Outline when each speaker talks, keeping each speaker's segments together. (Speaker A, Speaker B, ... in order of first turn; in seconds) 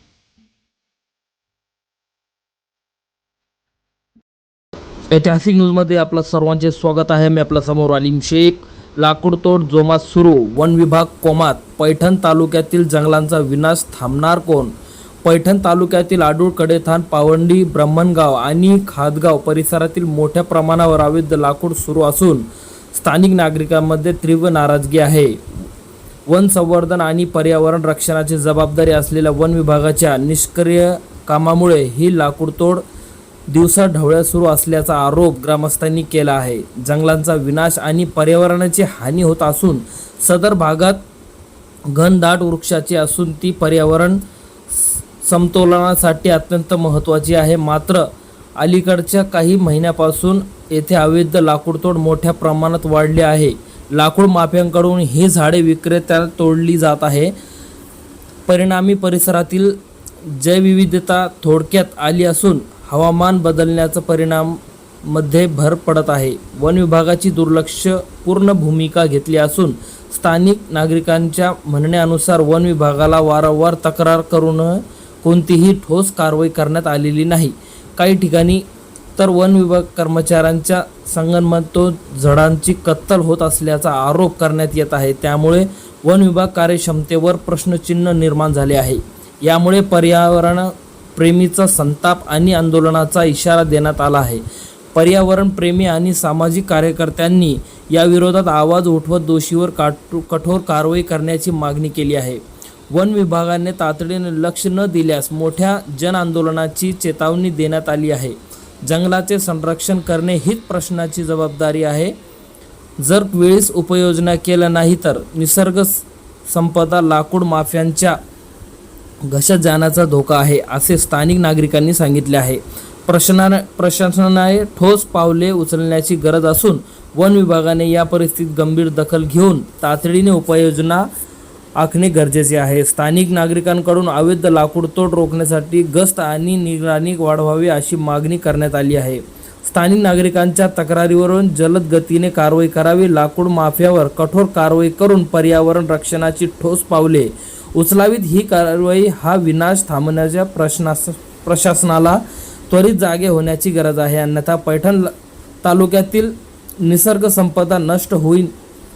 Speaker A: 5.1-25.4, 26.3-32.8, 33.5-41.0, 41.9-44.2, 45.2-57.3, 58.5-78.6, 79.2-94.4, 94.9-112.2, 113.0-118.2, 119.2-131.1, 131.8-158.5